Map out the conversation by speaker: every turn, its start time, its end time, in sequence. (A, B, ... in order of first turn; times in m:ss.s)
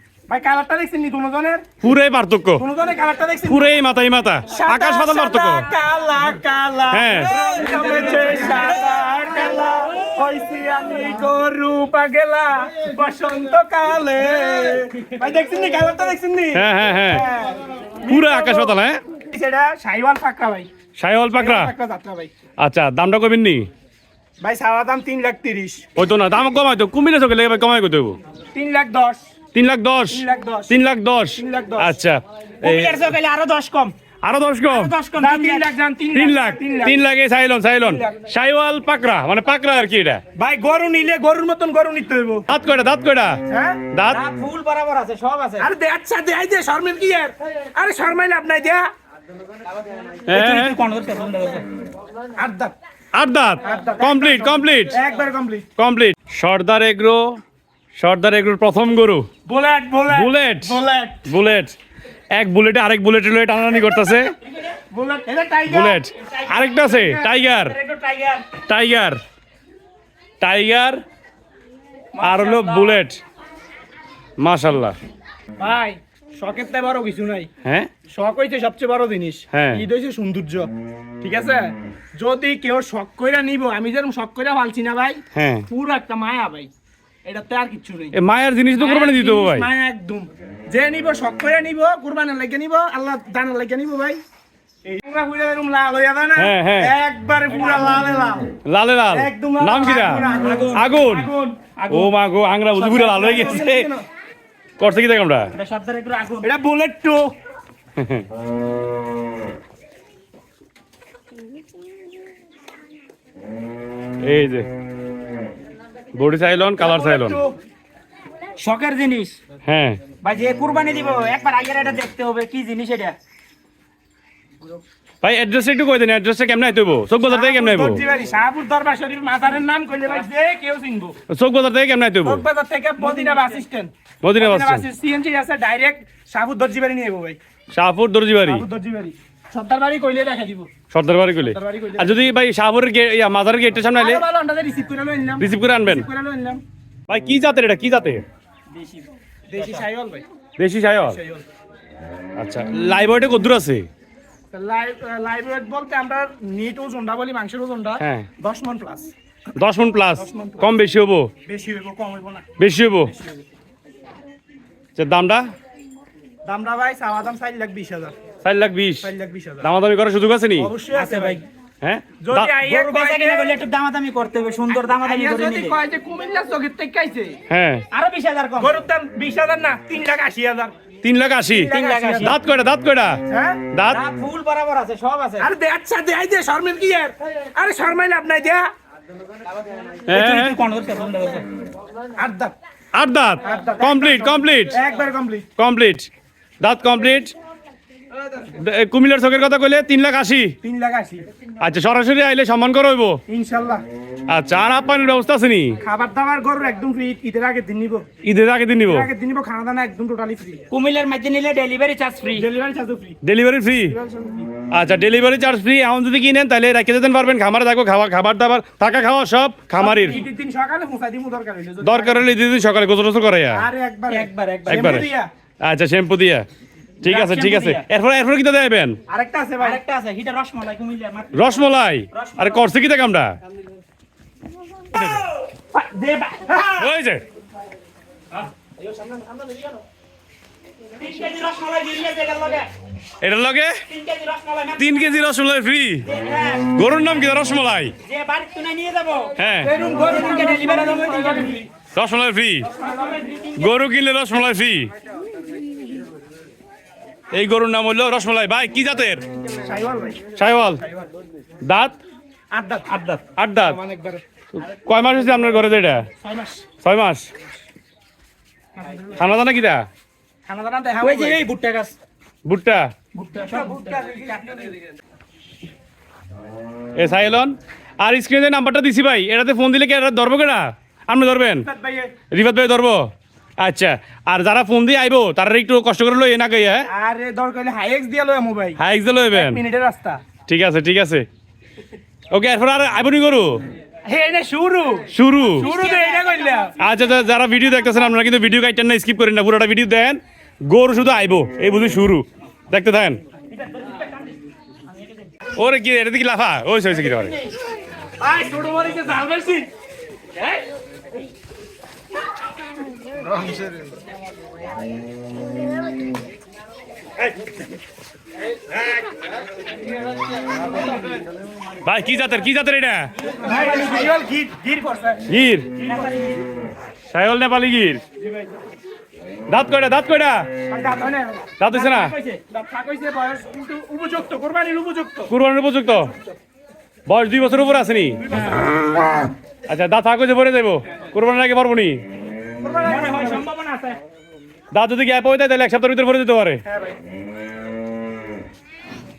0:00.3-0:01.6 A
0:01.8-0:02.6 B
0:02.6-0:03.7 A
0:03.5-0:05.7 B
0:04.5-0:18.8 A
0:06.9-0:07.3 B
0:16.5-0:17.3 B
0:18.1-0:19.0 B
0:19.3-0:20.7 A
0:21.0-0:21.7 B
0:21.3-0:22.3 A
0:22.6-0:23.6 B
0:24.4-0:25.8 A
0:26.0-0:28.2 B
0:28.5-0:29.2 A
0:29.5-0:33.0 B
0:30.1-0:30.7 A
0:31.4-0:32.0 A
0:32.6-0:33.9 C
0:34.2-0:34.9 B
0:34.7-0:35.6 C
0:35.2-0:37.0 A
0:36.1-0:40.2 B
0:37.8-0:38.2 A
0:40.3-0:42.4 A
0:42.5-0:43.4 B
0:43.5-0:43.9 A
0:43.9-0:44.2 B
0:44.1-0:45.7 C
0:45.6-0:48.8 A
0:50.2-0:51.6 C
0:50.3-0:50.7 B
0:52.4-0:52.7 A
0:53.1-0:55.0 B
0:53.6-0:55.7 A
0:55.8-0:57.4 B
0:58.0-0:59.2 B
0:59.4-1:01.3 A
1:00.1-1:01.7 B
1:02.3-1:04.3 B
1:04.9-1:06.0 A
1:05.7-1:07.8 B
1:06.2-1:08.5 C
1:08.6-1:09.2 B
1:10.4-1:11.0 B
1:12.1-1:13.0 A
1:12.2-1:13.2 B
1:14.4-1:15.0 B
1:15.6-1:17.5 A
1:17.6-1:17.9 B
1:18.1-1:20.7 A
1:19.5-1:19.8 B
1:21.2-1:26.7 A
1:25.3-1:25.6 B
1:27.2-1:28.1 A
1:28.1-1:29.7 B
1:28.8-1:34.2 A
1:34.8-1:38.4 A
1:36.4-1:36.9 B
1:37.5-1:38.0 C
1:38.6-1:40.2 B
1:39.1-1:41.8 A
1:40.2-1:41.2 C
1:40.7-1:41.3 B
1:41.8-1:42.1 C
1:41.9-1:43.9 B
1:42.7-1:44.0 A
1:44.8-1:45.5 B
1:45.5-1:46.5 C
1:46.4-1:47.3 A
1:48.0-1:48.2 B
1:54.2-1:54.7 B
1:56.1-1:57.4 B
1:56.8-1:57.5 A
1:58.6-1:59.4 C
1:59.6-2:00.0 B
2:00.2-2:03.2 C
2:05.2-2:08.0 B
2:07.3-2:11.2 A
2:11.3-2:12.4 B
2:12.2-2:17.4 A
2:13.0-2:13.5 C
2:14.2-2:14.8 B
2:17.7-2:18.6 B
2:18.4-2:20.7 A
2:20.9-2:24.2 B
2:21.4-2:22.2 A
2:23.9-2:26.6 A
2:25.4-2:26.1 B
2:27.1-2:28.2 B
2:29.5-2:30.2 A
2:29.6-2:29.8 C
2:30.6-2:31.2 B
2:31.0-2:31.4 A
2:32.4-2:33.9 B
2:34.5-2:39.1 A
2:38.0-2:38.2 B
2:39.6-2:41.3 B
2:40.2-2:40.7 A
2:41.4-2:42.4 A
2:42.6-2:43.1 B
2:43.1-2:43.4 A
2:45.0-2:45.5 B
2:46.4-2:48.1 A
2:48.4-2:49.1 B
2:49.0-2:49.7 A
2:49.6-2:50.7 B
2:50.6-2:51.4 A
2:50.9-2:51.4 C
2:51.8-2:52.5 B
2:52.2-2:53.6 A
2:52.6-2:55.8 C
2:54.7-2:57.4 A
2:57.5-2:57.8 B
2:57.9-2:58.7 C
2:58.6-3:00.7 A
3:01.0-3:03.2 B
3:01.5-3:02.4 A
3:01.7-3:02.4 C
3:03.3-3:03.7 A
3:03.7-3:04.0 B
3:03.8-3:05.5 C
3:05.4-3:08.6 A
3:10.1-3:10.6 B
3:10.1-3:11.4 C
3:12.2-3:12.5 A
3:12.9-3:14.8 B
3:13.4-3:15.5 A
3:15.6-3:16.1 B
3:16.6-3:17.3 B
3:18.5-3:20.5 B
3:20.6-3:21.2 A
3:21.6-3:23.2 B
3:23.3-3:23.8 A
3:24.3-3:25.8 B
3:25.8-3:28.0 A
3:28.2-3:29.1 B
3:28.8-3:30.6 A
3:30.7-3:32.5 C
3:32.3-3:33.2 A
3:33.2-3:33.9 B
3:33.9-3:34.5 A
3:34.7-3:40.2 B
3:39.8-3:42.3 A
3:39.8-3:40.2 C
3:41.8-3:43.6 B
3:43.5-3:45.3 A
3:44.1-3:45.0 C
3:44.7-3:45.1 B
3:45.6-3:46.4 B
3:47.0-3:49.0 B
3:47.0-3:47.9 C
3:49.1-3:49.8 A
3:49.6-3:51.5 C
3:51.3-3:53.3 B
3:52.1-3:52.6 C
3:54.9-3:55.2 B
3:55.0-3:56.9 C
3:56.8-3:57.2 B
3:58.6-3:59.7 C
4:01.0-4:02.7 C
4:03.2-4:03.8 B
4:03.9-4:05.2 C
4:04.8-4:06.1 B
4:06.0-4:06.8 C
4:06.7-4:07.9 B
4:08.0-4:09.4 C
4:09.4-4:09.7 B
4:09.6-4:11.7 A
4:09.9-4:11.6 C
4:11.9-4:12.7 B
4:12.7-4:13.7 C
4:12.8-4:13.1 A
4:13.6-4:14.9 B
4:17.3-4:19.2 B
4:19.5-4:20.2 A
4:20.4-4:20.8 B
4:21.6-4:22.0 B
4:22.5-4:24.2 A
4:23.4-4:23.8 B
4:24.6-4:26.0 B
4:26.2-4:26.6 A
4:26.8-4:27.3 B
4:28.8-4:29.2 A
4:29.2-4:29.8 B
4:30.4-4:31.4 A
4:31.0-4:32.0 C
4:32.4-4:32.9 B
4:33.1-4:34.9 A
4:33.4-4:34.1 C
4:37.0-4:41.7 B
4:41.6-4:42.1 A
4:42.3-4:46.9 B
4:46.9-4:48.8 A
4:48.8-4:49.6 B
4:49.3-4:50.2 A
4:50.5-4:51.2 B
4:52.3-4:53.6 B
4:54.0-4:56.7 A
4:55.1-4:55.7 B
4:55.6-4:56.4 C
4:56.8-5:03.2 B
5:03.6-5:04.2 C
5:05.6-5:07.3 B
5:07.1-5:07.3 C
5:08.2-5:09.7 A
5:21.8-5:23.1 B
5:23.3-5:24.1 C
5:23.4-5:25.2 A
5:25.3-5:25.7 B
5:25.8-5:26.4 C
5:27.1-5:28.0 B
5:28.2-5:28.5 A
5:29.5-5:30.5 B
5:30.7-5:31.6 A
5:31.6-5:32.1 B
5:31.7-5:32.4 C
5:32.5-5:35.3 A
5:35.3-5:36.1 B
5:37.1-5:38.2 B
5:38.2-5:38.6 A
5:39.7-5:42.0 B
5:42.6-5:44.0 A
5:42.8-5:43.5 C
5:44.7-5:46.6 B
5:46.6-5:47.0 A